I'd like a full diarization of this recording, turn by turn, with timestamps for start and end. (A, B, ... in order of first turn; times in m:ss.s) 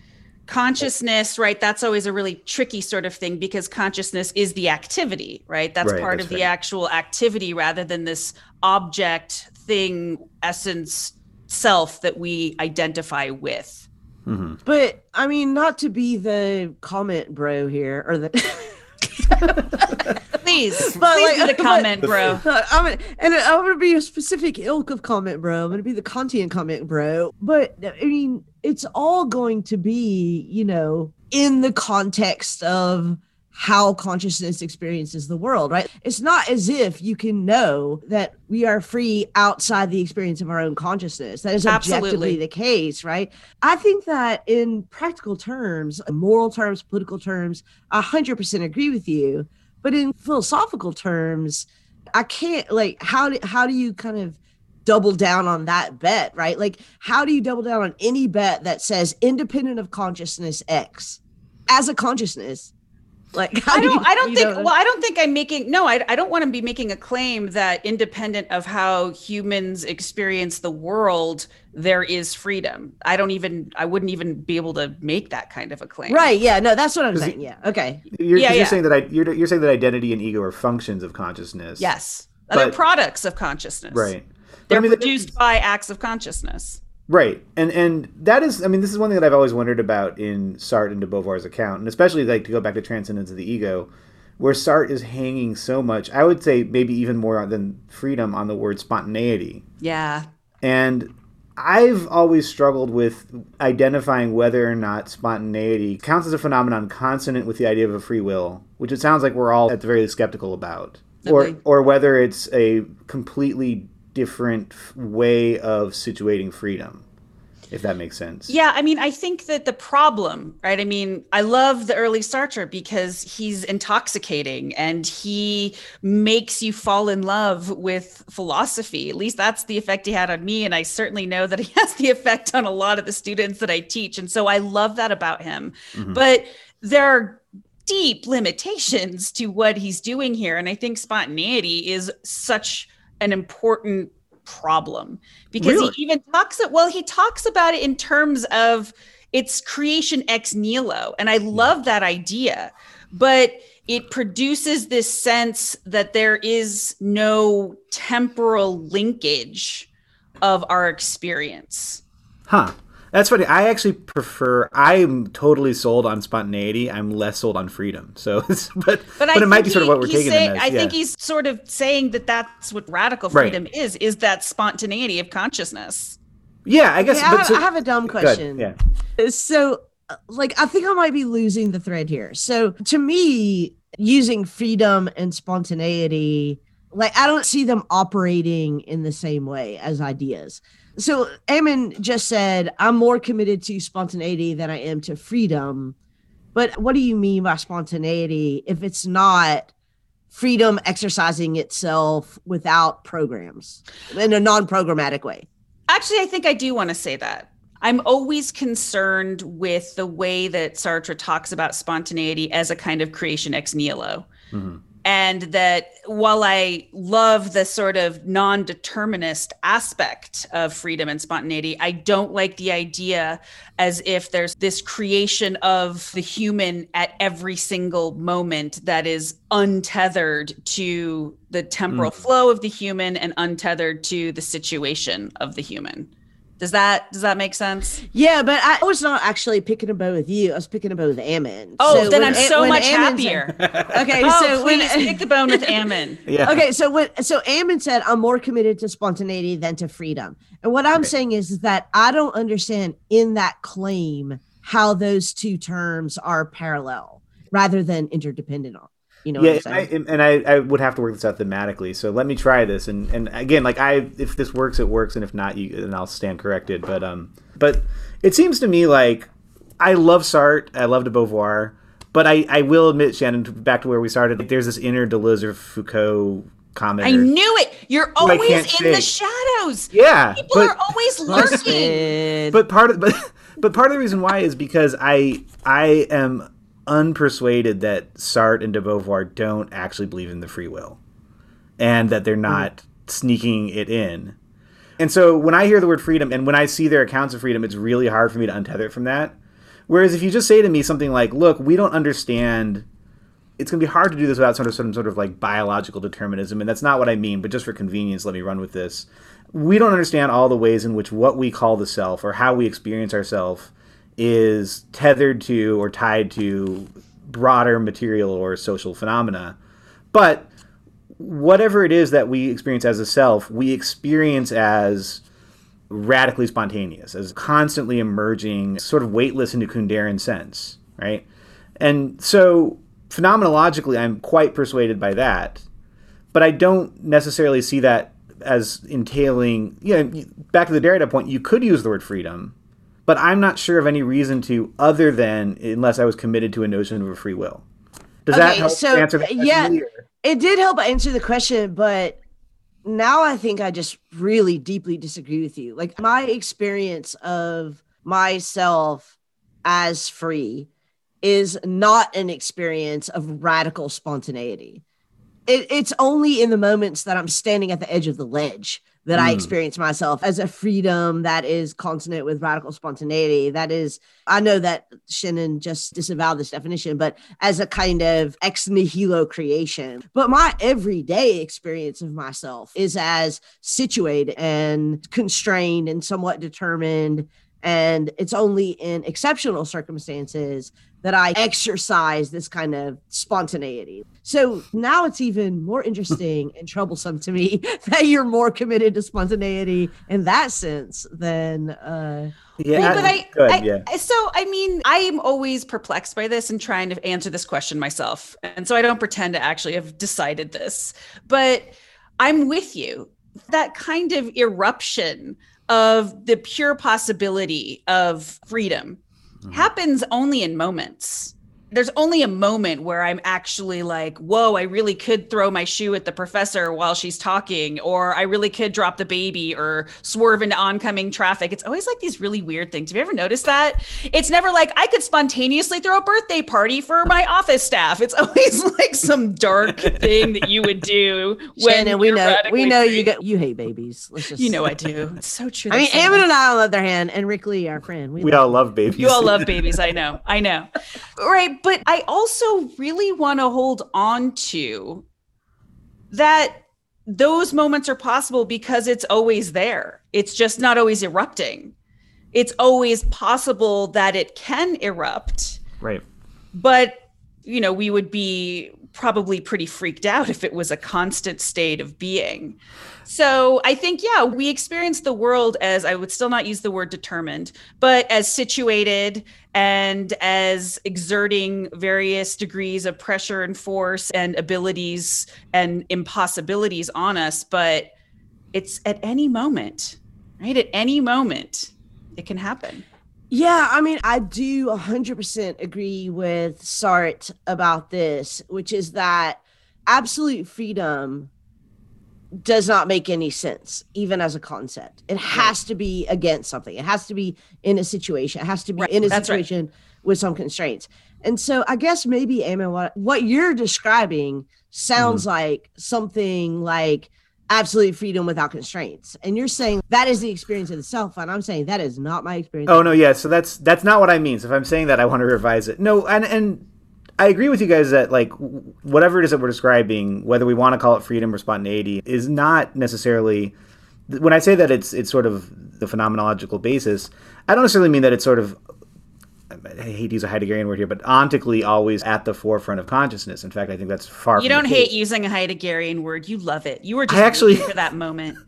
0:00.5-0:13.9 A
0:05.8-0:06.4 B
0:14.2-0:14.6 B
0:14.6-0:20.1 C
0:20.4-0:22.4 A
0:20.8-1:02.7 C
0:41.6-0:42.4 A
1:03.3-1:04.7 C
1:03.7-1:16.2 A
1:16.1-1:18.0 C
1:18.1-1:21.9 B
1:18.3-1:18.8 A
1:21.8-1:24.1 A
1:22.5-1:22.8 B
1:23.9-1:25.3 B
1:24.7-1:26.8 A
1:27.1-1:39.6 B
1:39.8-1:40.2 A
1:40.6-1:57.0 B
1:51.2-1:51.6 A
1:57.7-1:58.5 B
1:58.5-2:39.9 A
2:15.9-2:16.2 B
2:25.6-2:25.9 B
2:40.4-2:42.0 A
2:42.5-2:50.9 B
2:49.2-2:56.2 A
2:53.3-2:53.6 B
2:56.6-2:58.8 B
2:57.0-3:15.9 C
3:16.5-3:19.7 C
3:20.3-3:25.4 C
3:25.9-3:34.3 A
3:34.5-3:34.8 B
3:35.0-3:56.1 A
3:51.9-3:52.1 B
3:56.6-3:58.0 A
3:58.1-4:05.7 C
4:01.8-4:03.6 A
4:01.8-4:02.5 B
4:03.6-4:04.1 B
4:04.2-4:06.2 A
4:06.2-4:06.6 B
4:06.4-4:19.9 C
4:19.4-4:37.3 B
4:37.0-4:42.1 A
4:38.2-4:39.1 B
4:39.9-4:40.8 B
4:41.3-4:41.8 B
4:41.3-4:42.6 C
4:42.5-4:51.0 B
4:51.8-4:54.4 B
4:55.0-4:59.4 B
4:59.9-5:02.8 B
5:03.6-5:19.6 B
5:20.1-5:20.5 B
5:21.2-5:25.2 B
5:25.9-5:31.3 B
5:31.8-5:35.6 B
5:36.3-5:42.5 B
5:43.1-5:47.6 B
5:48.2-5:50.0 B
5:48.3-5:52.2 C
5:52.8-5:59.1 C
5:59.6-6:00.7 C
6:01.2-6:04.8 C
6:05.5-6:43.1 C
6:09.1-6:09.5 B
6:42.6-6:43.8 B
6:42.7-6:59.0 A
6:59.5-7:23.1 A
7:21.6-7:24.6 C
7:24.4-7:26.2 A
7:25.7-7:28.5 C
7:28.2-7:29.8 B
7:29.0-7:35.0 A
7:36.1-7:41.7 A
7:42.3-7:45.6 A
7:46.5-8:07.9 A
8:08.5-8:12.8 A
8:13.3-8:21.3 C
8:22.4-8:43.0 C
8:28.8-8:29.4 A
8:35.0-8:35.2 B
8:42.7-8:46.6 B
8:47.2-8:53.5 B
8:54.1-8:58.6 B
8:59.5-9:04.9 B
9:04.4-9:08.4 A
9:07.1-9:07.7 B